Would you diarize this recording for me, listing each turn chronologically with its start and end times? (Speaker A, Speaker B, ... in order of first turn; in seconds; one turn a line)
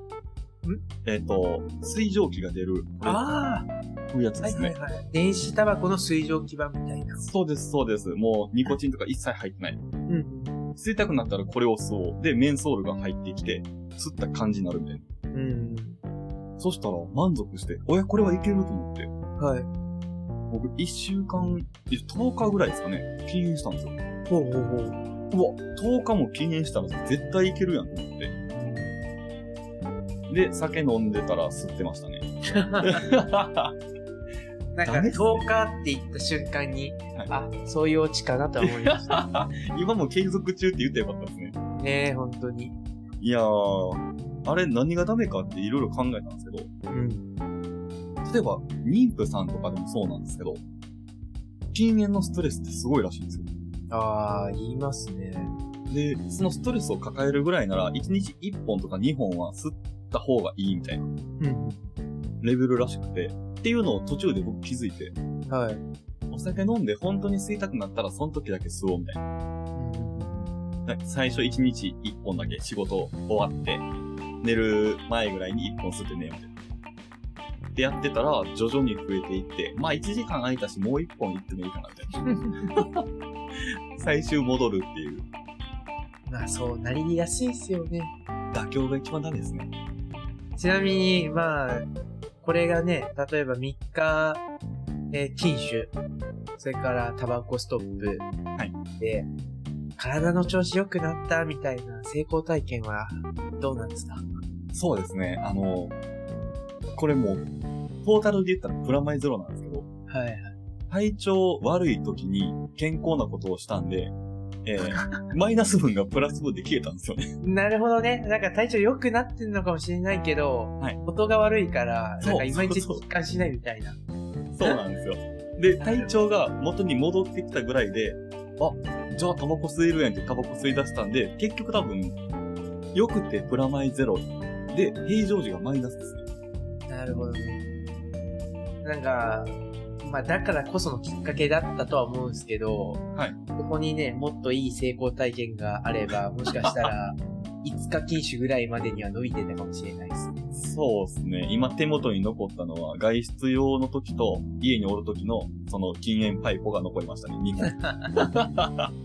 Speaker A: 1.0-3.2
Speaker B: 3.0-3.7
Speaker A: 4.1-4.7
Speaker B: 4.4-7.2
Speaker A: 7.2-9.8
Speaker B: 10.1-10.5
Speaker A: 10.8-15.0
Speaker B: 15.3-16.0
Speaker A: 16.6-19.1
Speaker B: 19.4-19.7
Speaker A: 20.5-23.9
Speaker B: 24.3-25.0
Speaker A: 25.3-28.3
Speaker B: 28.5-28.9
Speaker A: 30.3-33.7
Speaker B: 32.5-32.9
Speaker B: 34.7-39.2
Speaker A: 34.8-35.4
Speaker A: 38.6-41.5
Speaker B: 41.8-42.8
Speaker A: 43.2-46.7
Speaker B: 46.9-47.3
Speaker A: 48.2-50.6
Speaker A: 51.7-53.5
Speaker B: 53.9-55.5
Speaker A: 55.9-61.1
Speaker B: 61.4-61.9
Speaker A: 62.4-65.1
Speaker B: 65.5-65.8
Speaker A: 66.3-69.2
Speaker B: 69.7-70.5
Speaker A: 70.8-73.8
Speaker A: 74.4-76.5
Speaker A: 77.7-83.0
Speaker B: 82.3-82.7
Speaker A: 83.6-85.2
Speaker B: 86.3-88.1
Speaker A: 88.5-89.7
Speaker B: 90.6-91.9
Speaker B: 92.4-94.4
Speaker B: 95.1-95.9
Speaker B: 96.6-98.3
Speaker B: 98.9-99.3
Speaker B: 100.0-104.2
Speaker A: 104.7-105.9
Speaker A: 106.9-107.5
Speaker A: 108.0-109.9
Speaker B: 110.1-110.5
Speaker A: 110.9-117.3
Speaker B: 114.8-115.3
Speaker B: 117.4-124.0
Speaker A: 122.2-123.0
Speaker A: 124.5-132.2
Speaker B: 125.8-126.1
Speaker A: 132.9-136.2
Speaker B: 136.9-137.6
Speaker B: 138.8-150.4
Speaker A: 146.6-146.9
Speaker A: 150.5-158.9
Speaker B: 157.6-158.3